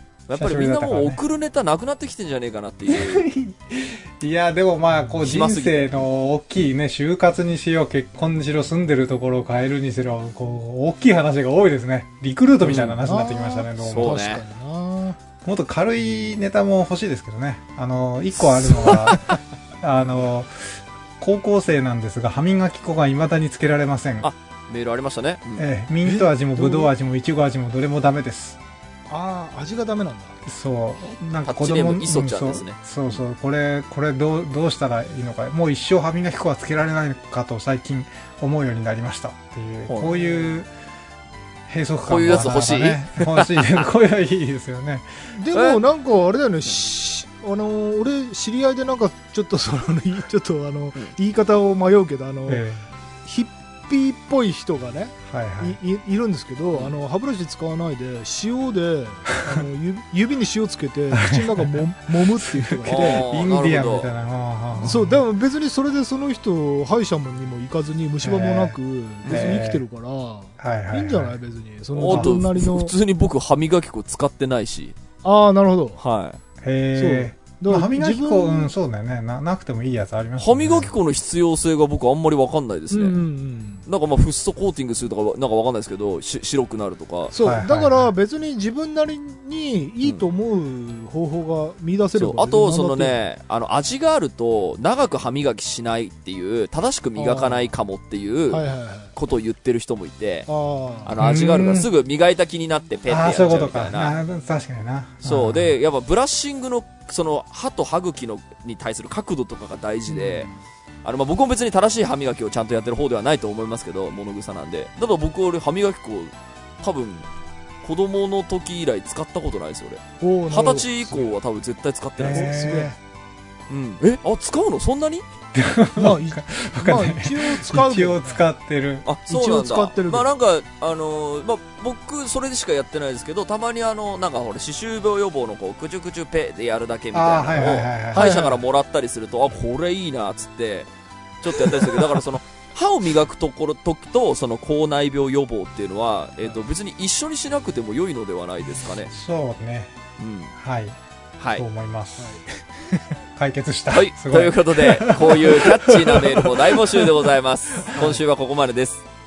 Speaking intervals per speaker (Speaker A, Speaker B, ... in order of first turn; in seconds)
Speaker A: 0.3-3.3, 5.2-6.0, 12.6-13.0, 13.8-14.4, 18.4-19.3, 24.2-25.7, 31.4-33.2, 39.9-40.1, 42.0-43.9, 45.5-45.8, 62.9-64.1, 69.2-69.6, 71.9-75.0, 76.0-76.4, 80.4-83.2, 83.8-87.3, 92.1-100.5, 101.0-104.2, 105.2-110.5, 111.0-117.2, 117.8-122.5, 123.7-125.2, 129.0-140.9, 141.4-149.1, 150.2-150.5, 151.4-151.6, 153.9-159.0
Speaker B: 0.4-1.2, 2.9-14.2, 15.4-24.3, 25.6-28.6, 30.4-40.7, 41.7-45.1, 52.5-52.8, 55.3-55.8, 61.1-61.8, 62.4-65.2, 68.2-68.7, 69.3-69.8, 70.6-71.4, 76.6-80.9, 87.3-88.1, 101.2-101.9, 103.1-105.7, 122.2-123.0, 125.5-129.0, 137.1-138.2, 149.1-149.9, 150.6-151.0, 151.5-156.8
Speaker C: 12.6-15.2, 26.0-26.9, 29.1-30.4, 40.0-40.5, 45.3-52.6, 53.2-63.2, 64.8-72.9, 75.2-76.0, 76.9-78.7, 82.9-83.8, 87.3-93.2, 97.2-97.7, 98.5-99.1, 100.5-101.2, 110.1-110.5, 120.2-121.3, 122.2-122.9, 126.0-128.4, 129.3-130.3, 138.1-138.6, 157.9-158.2